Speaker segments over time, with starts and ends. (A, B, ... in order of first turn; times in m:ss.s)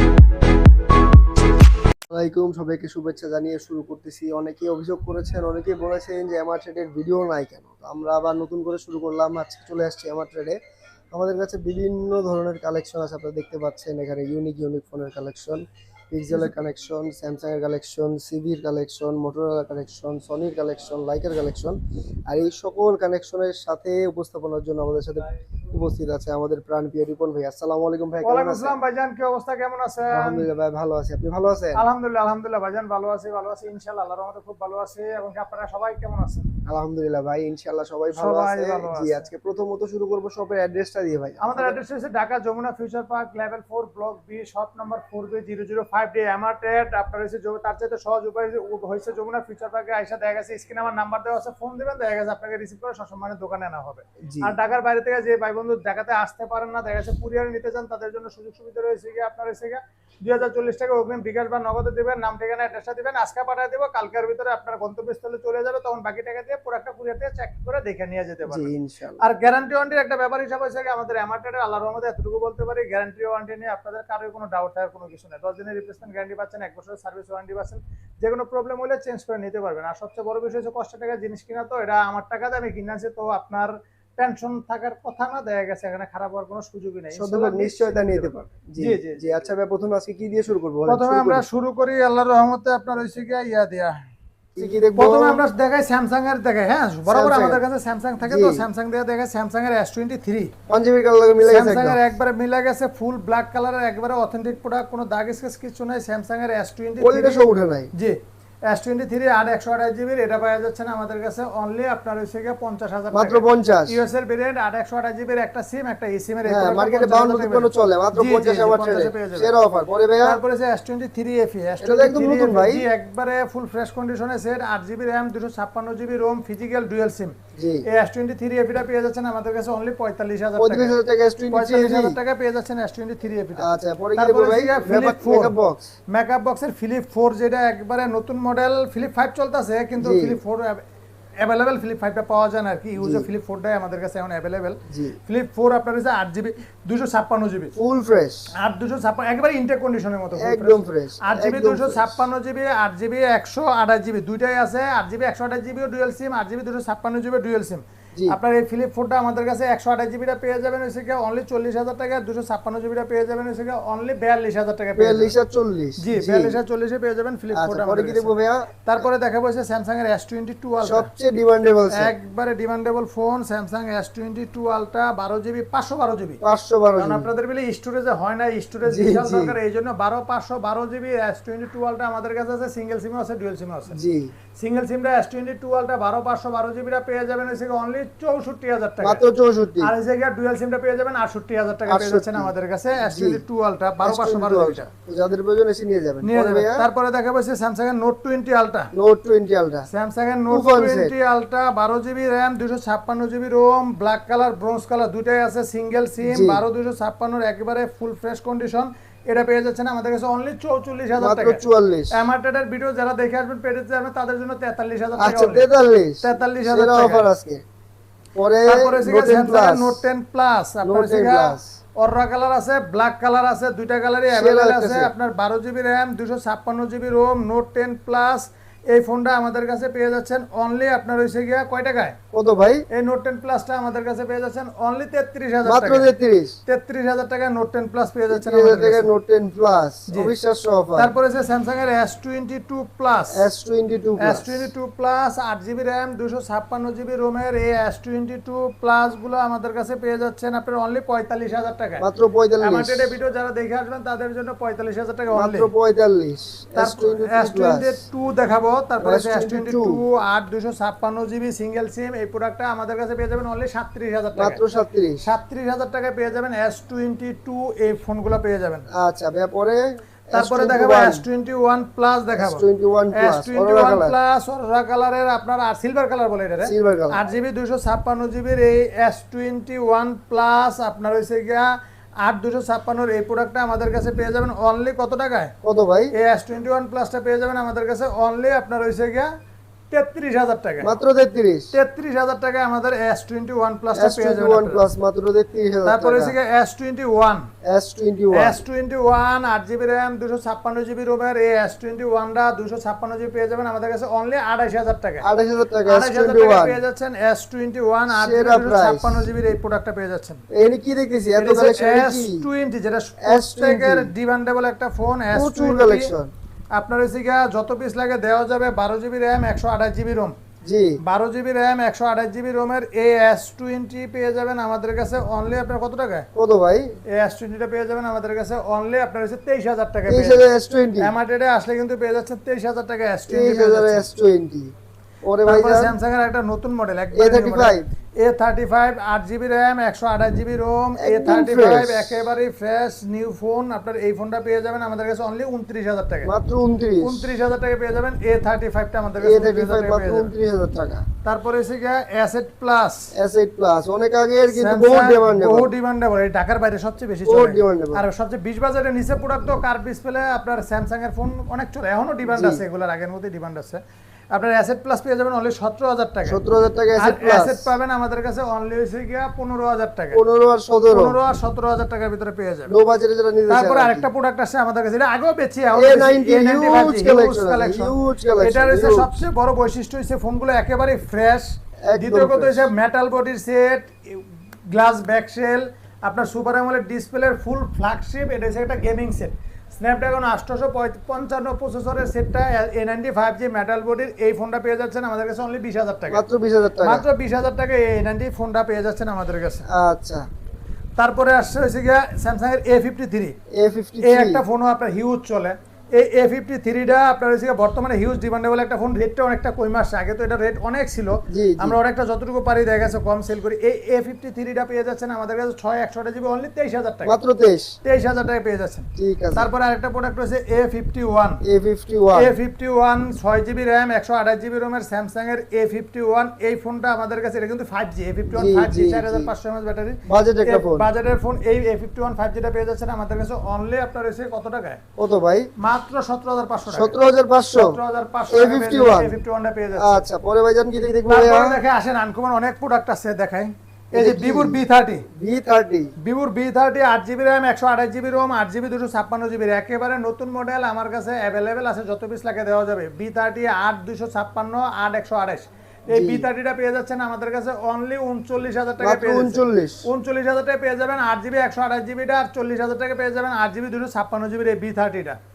0:02.1-0:10.6 A
0:11.1-0:28.8 A
0:28.2-0:30.5 B
0:30.1-0:31.8 A
0:31.8-0:36.5 B
0:36.7-0:41.8 A
0:38.1-0:39.3 B
0:41.4-1:29.2 B
0:54.2-0:54.6 A
1:08.4-1:09.2 A
1:27.1-1:31.4 A
1:30.9-1:34.0 B
1:34.6-1:35.4 A
1:35.0-1:40.5 B
1:37.1-1:37.6 A
1:38.2-1:38.7 A
1:40.7-1:42.0 A
1:41.4-1:48.2 B
1:47.0-1:47.9 A
1:48.7-1:59.5 B
1:53.1-1:54.0 A
1:56.4-2:00.4 A
2:00.2-2:07.4 B
2:01.8-2:02.8 A
2:07.6-2:07.9 A
2:07.9-2:11.0 B
2:10.6-2:12.2 A
2:11.5-2:15.5 B
2:13.6-2:15.9 A
2:16.1-2:20.8 B
2:20.0-2:20.4 A
2:21.4-2:27.7 B
2:23.0-2:23.3 A
2:24.9-2:25.2 A
2:27.8-2:28.5 A
2:28.6-2:45.3 B
2:30.4-2:32.2 A
2:45.0-2:46.6 A
2:46.0-2:48.3 B
2:47.5-2:48.7 A
2:48.8-2:51.1 B
2:50.8-2:52.1 A
2:52.0-2:56.4 B
2:56.4-2:57.3 A
2:57.0-3:04.0 B
2:58.9-2:59.6 A
3:03.9-3:04.3 A
3:04.6-3:09.2 B
3:09.0-3:09.9 A
3:09.8-3:14.9 B
3:11.9-3:13.4 A
3:14.0-3:16.9 A
3:16.2-3:18.9 B
3:18.9-3:19.9 A
3:19.9-3:31.6 B
3:20.5-3:21.1 A
3:26.2-3:26.6 A
3:31.2-3:32.2 A
3:32.1-3:35.7 B
3:35.2-3:37.6 A
3:36.2-3:37.2 B
3:38.3-3:40.0 A
3:38.7-3:52.2 B
3:40.8-3:41.7 A
3:44.3-3:45.1 A
3:52.3-3:52.8 A
3:52.9-3:56.1 B
3:55.6-3:56.6 A
3:56.7-3:59.1 B
3:58.3-4:01.1 A
4:01.0-4:03.4 B
4:03.3-4:04.6 A
4:04.2-4:12.0 B
4:12.0-4:13.2 A
4:12.6-4:15.7 B
4:15.3-4:18.0 A
4:16.8-4:24.6 B
4:19.0-4:20.0 A
4:24.4-4:25.2 A
4:25.2-4:28.8 B
4:28.9-4:31.2 A
4:30.3-4:32.6 B
4:32.4-4:34.1 A
4:33.1-4:41.7 B
4:36.6-4:37.2 A
4:42.2-4:45.5 B
4:45.6-4:46.1 A
4:46.1-4:49.3 B
4:49.9-4:50.9 B
4:50.8-4:51.7 A
4:51.7-4:54.8 B
4:53.9-4:56.3 A
4:55.8-4:57.5 B
4:57.6-4:58.6 A
4:58.3-5:05.2 B
5:05.2-5:06.8 A
5:05.9-5:10.4 B
5:08.1-5:09.2 A
5:10.5-5:12.4 A
5:11.4-5:16.1 B
5:13.2-5:14.1 A
5:15.3-5:16.3 A
5:16.8-5:20.3 B
5:20.6-5:21.0 A
5:21.0-5:26.3 B
5:26.3-5:26.9 A
5:27.1-5:30.4 B
5:30.1-5:31.1 A
5:31.0-5:34.1 B
5:33.3-5:35.9 A
5:35.4-5:46.3 B
5:37.1-5:37.9 A
5:41.0-5:42.2 A
5:46.2-5:47.3 A
5:47.0-5:50.3 B
5:49.2-5:51.0 A
5:51.2-5:53.1 B
5:53.1-5:55.7 A
5:54.5-6:03.8 B
5:57.2-5:58.0 A
6:02.3-6:02.6 A
6:04.3-6:06.4 B
6:06.2-6:07.7 A
6:07.0-6:10.2 B
6:10.1-6:11.2 A
6:10.9-6:12.7 B
6:12.7-6:14.1 A
6:13.5-6:36.2 B
6:15.8-6:19.1 A
6:21.8-6:22.7 A
6:36.1-6:37.0 A
6:36.8-6:39.6 B
6:39.7-6:40.2 A
6:41.0-6:43.3 B
6:43.5-6:44.4 A
6:44.0-6:57.1 B
6:51.3-6:51.8 A
6:57.1-6:57.7 A
6:57.8-7:01.4 B
6:59.0-6:59.5 A
7:01.4-7:02.3 A
7:02.1-7:14.8 B
7:08.3-7:09.3 A
7:10.1-7:10.9 A
7:15.0-7:15.5 A
7:15.6-7:17.0 B
7:16.7-7:17.8 A
7:17.6-7:20.0 B
7:18.3-7:19.1 A
7:19.8-7:21.6 A
7:21.1-7:25.1 B
7:23.9-7:24.6 A
7:25.1-7:25.9 A
7:26.0-7:45.2 B
7:35.9-7:36.2 A
7:38.8-7:39.8 A